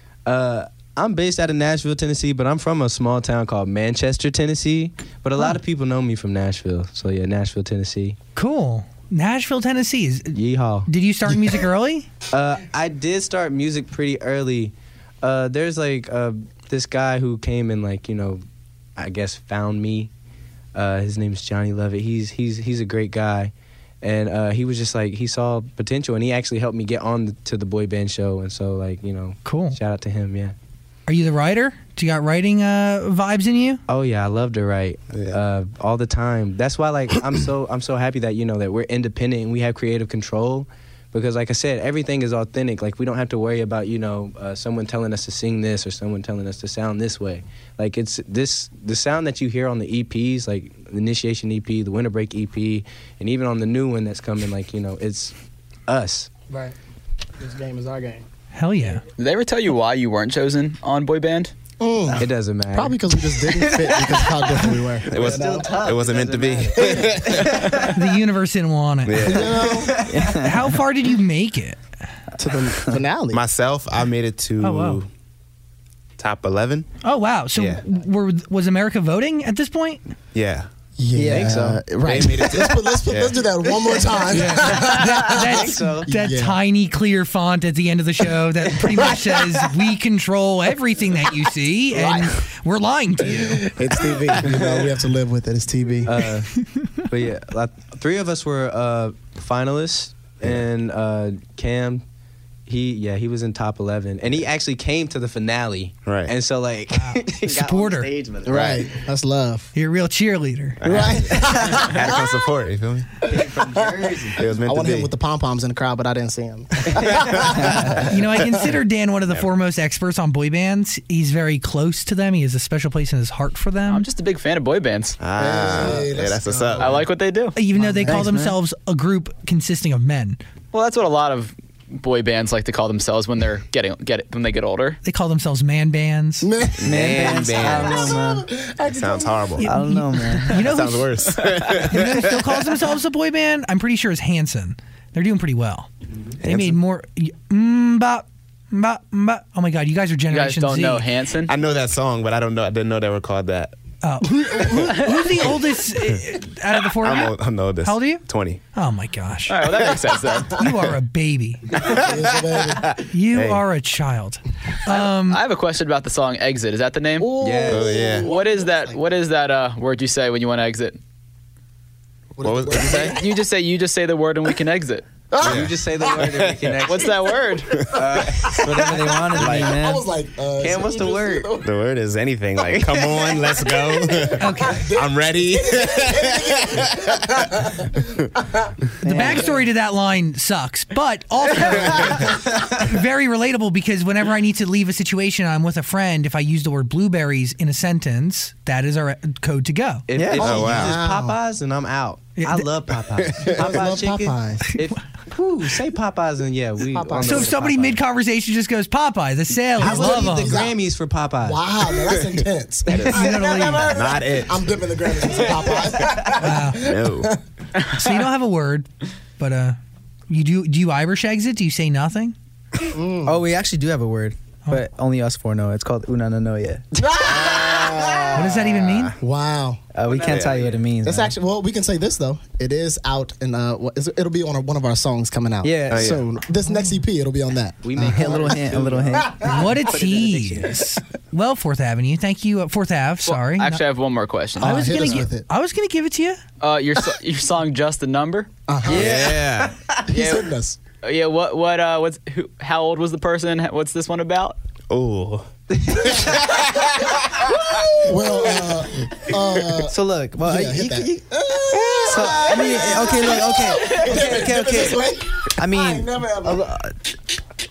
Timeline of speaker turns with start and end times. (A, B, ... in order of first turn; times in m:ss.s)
0:00.3-0:08.2 A
0:08.4-0:12.1 B
0:10.3-0:10.9 A
0:12.3-0:18.4 A
0:19.0-0:20.1 A
0:20.7-0:30.6 A
0:29.4-0:29.8 B
0:31.1-0:33.8 B
0:33.9-0:55.3 A
0:35.1-0:35.4 C
0:55.9-0:56.3 A
0:56.5-0:56.8 D
0:57.4-0:58.2 D
0:58.5-0:59.0 B
0:59.2-1:01.5 E
1:01.8-1:05.8 D
1:02.2-1:08.0 A
1:05.1-1:07.9 C
1:06.8-1:07.5 D
1:07.8-1:09.5 B
1:09.1-1:09.9 C
1:09.2-1:10.0 D
1:09.6-1:10.4 A
1:10.1-1:10.7 F
1:10.2-1:11.8 B
1:12.4-1:13.4 D
1:13.3-1:15.1 C
1:14.6-1:15.0 B
1:16.2-1:16.9 C
1:17.0-1:20.0 B
1:17.6-1:17.8 C
1:20.3-1:20.7 C
1:21.0-1:26.6 D
1:21.1-1:21.8 F
1:21.2-1:21.8 A
1:22.0-1:23.4 C
1:24.3-1:26.1 A
1:24.6-1:33.7 B
1:28.9-1:29.5 A
1:31.9-1:32.3 D
1:33.3-1:36.2 D
1:34.4-1:34.9 A
1:36.0-1:36.5 A
1:37.0-1:42.0 A
1:42.7-1:48.9 A
1:46.1-1:46.3 C
1:46.9-1:48.1 B
1:48.5-1:49.7 D
1:48.5-1:48.9 C
1:49.8-1:50.8 B
1:50.8-1:53.1 C
1:50.8-1:52.4 D
1:53.3-1:58.2 D
1:53.3-1:54.4 A
1:54.4-1:55.1 C
1:57.5-1:57.9 C
1:58.0-2:04.0 B
2:03.9-2:05.2 E
2:05.2-2:07.0 C
2:05.4-2:07.0 D
2:06.8-2:07.6 E
2:07.6-2:10.4 B
2:08.0-2:08.6 F
2:10.7-2:15.0 E
2:15.0-2:16.5 B
2:16.4-2:19.6 D
2:16.8-2:18.2 C
2:16.8-2:18.5 F
2:18.8-2:19.7 C
2:19.6-2:25.9 B
2:19.6-2:20.7 F
2:20.6-2:22.6 C
2:26.4-2:26.8 C
2:26.4-2:31.1 B
2:30.3-2:31.5 E
2:31.5-2:33.7 C
2:34.0-2:39.6 B
2:37.0-2:38.6 C
2:39.5-2:40.6 E
2:40.5-2:41.8 B
2:41.8-2:42.9 D
2:41.8-2:43.6 C
2:43.1-2:45.4 B
2:44.9-2:47.4 E
2:47.2-2:49.0 D
2:47.4-2:48.0 A
2:47.7-2:48.3 C
2:48.2-2:51.0 E
2:52.4-2:53.3 D
2:52.4-2:53.2 C
2:52.9-2:55.1 E
2:55.3-2:56.3 D
2:55.4-2:57.2 A
2:55.4-2:55.8 C
2:56.8-2:57.9 E
2:57.8-3:01.8 D
2:57.9-2:59.7 A
2:58.6-3:00.0 F
3:00.6-3:01.5 A
3:01.6-3:07.2 C
3:02.6-3:03.8 A
3:04.1-3:08.7 D
3:04.4-3:04.9 B
3:09.0-3:09.5 F
3:09.0-3:20.0 B
3:20.1-3:28.0 A
3:20.1-3:20.7 F
3:20.4-3:21.0 C
3:20.4-3:21.4 D
3:22.4-3:22.7 B
3:23.4-3:24.7 D
3:26.9-3:27.6 D
3:27.2-3:30.6 B
3:29.8-3:30.7 D
3:29.8-3:31.6 A
3:31.4-3:37.4 D
3:32.9-3:34.7 C
3:33.0-3:34.0 B
3:35.2-3:35.6 C
3:36.4-3:36.8 B
3:36.7-3:37.3 C
3:37.9-3:39.8 B
3:40.3-3:42.4 B
3:42.9-3:43.4 D
3:43.2-3:46.8 F
3:47.0-3:48.5 D
3:47.3-3:49.2 C
3:48.3-3:49.2 B
3:49.2-3:49.8 D
3:49.9-3:51.4 F
3:50.0-3:50.8 A
3:50.3-3:50.6 C
3:51.0-3:59.8 D
3:55.6-3:56.2 F
3:55.9-3:56.2 C
3:56.6-3:57.0 B
3:57.8-4:00.8 A
3:58.0-3:59.5 F
3:59.4-4:03.8 B
4:03.2-4:05.2 E
4:04.6-4:05.5 D
4:04.6-4:06.4 B
4:06.6-4:08.5 E
4:08.7-4:09.3 D
4:08.9-4:09.8 C
4:08.9-4:10.0 A
4:10.1-4:10.8 D
4:11.0-4:14.6 E
4:14.9-4:17.1 C
4:17.6-4:18.1 C
4:17.9-4:26.7 D
4:18.6-4:19.2 C
4:19.8-4:21.2 F
4:22.1-4:27.0 F
4:22.5-4:24.4 A